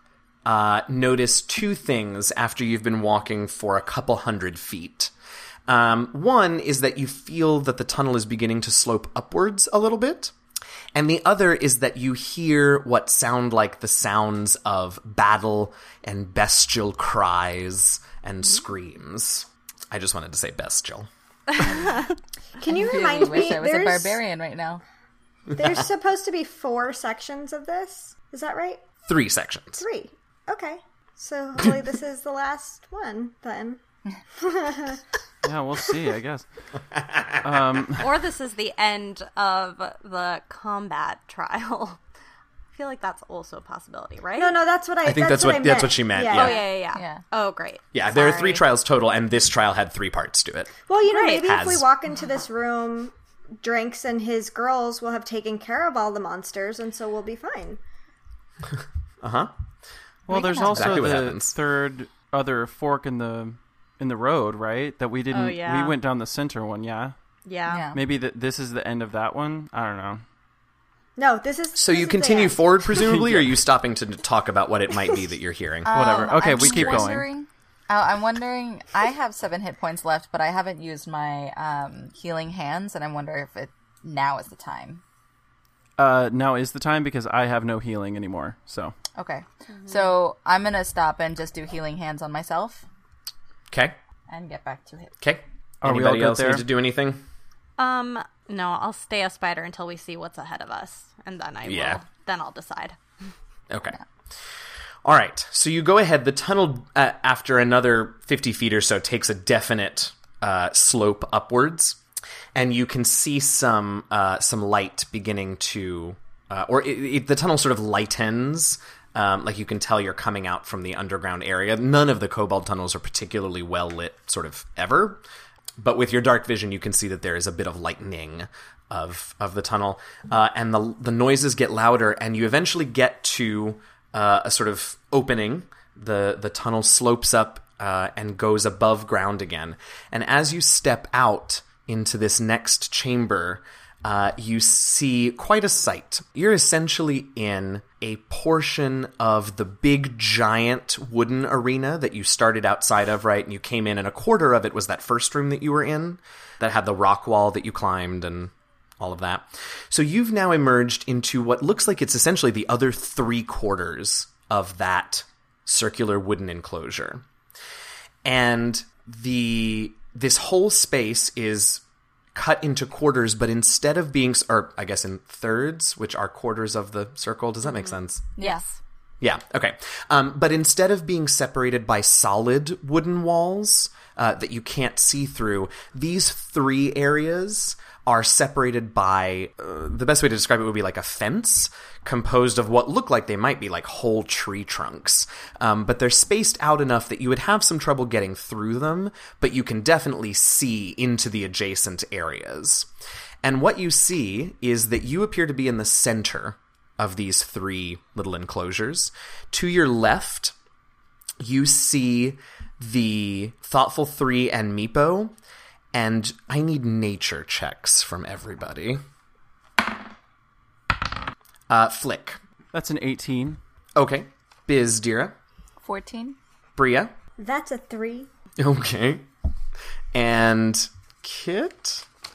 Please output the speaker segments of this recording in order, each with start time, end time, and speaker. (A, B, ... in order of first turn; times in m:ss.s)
0:00.4-0:05.1 A
0:05.7-0:10.3 A
0:10.9-0:21.1 A
0:22.6-0:24.2 B
0:22.7-0:24.8 C
0:25.6-0:28.8 B
0:29.1-0:29.8 A
0:29.8-0:33.8 B
0:34.4-0:35.0 B
0:35.4-0:36.5 D
0:36.9-0:37.5 A
0:37.4-0:38.1 D
0:38.0-0:42.0 E
0:42.7-0:44.6 E
0:44.4-0:46.7 B
0:45.0-0:46.6 A
0:46.3-0:48.6 E
0:47.0-0:47.2 C
0:47.9-0:50.7 A
0:50.9-0:57.8 B
0:51.0-0:51.5 E
0:51.4-0:51.9 A
0:59.2-0:59.5 A
1:00.3-1:07.1 D
1:00.3-1:01.1 C
1:00.7-1:01.6 A
1:05.3-1:06.0 E
1:07.5-1:07.8 E
1:07.7-1:08.0 C
1:07.9-1:10.2 D
1:11.2-1:12.9 B
1:11.8-1:17.0 A
1:13.0-1:13.6 D
1:15.8-1:25.0 C
1:15.9-1:17.3 D
1:26.0-1:28.9 D
1:29.2-1:32.8 C
1:33.7-1:34.0 A
1:34.3-1:35.1 C
1:35.2-1:37.2 A
1:35.8-1:36.7 D
1:37.8-1:43.0 E
1:41.6-1:42.0 A
1:43.7-1:44.0 A
1:45.0-1:52.0 A
1:52.6-2:05.2 A
2:05.8-2:47.2 A
2:48.2-2:51.8 A
2:52.4-2:58.3 A
2:57.8-2:58.7 E
2:58.4-2:58.6 C
2:59.2-3:22.9 A
3:23.4-3:30.6 A
3:31.4-3:35.3 A
3:35.9-3:39.0 A
3:41.7-3:42.4 A
3:42.7-3:43.6 D
3:44.0-3:45.4 A
3:45.8-3:46.4 C
3:46.8-3:47.1 A
3:47.4-3:48.3 B
3:48.6-3:49.3 A
3:50.1-3:52.0 A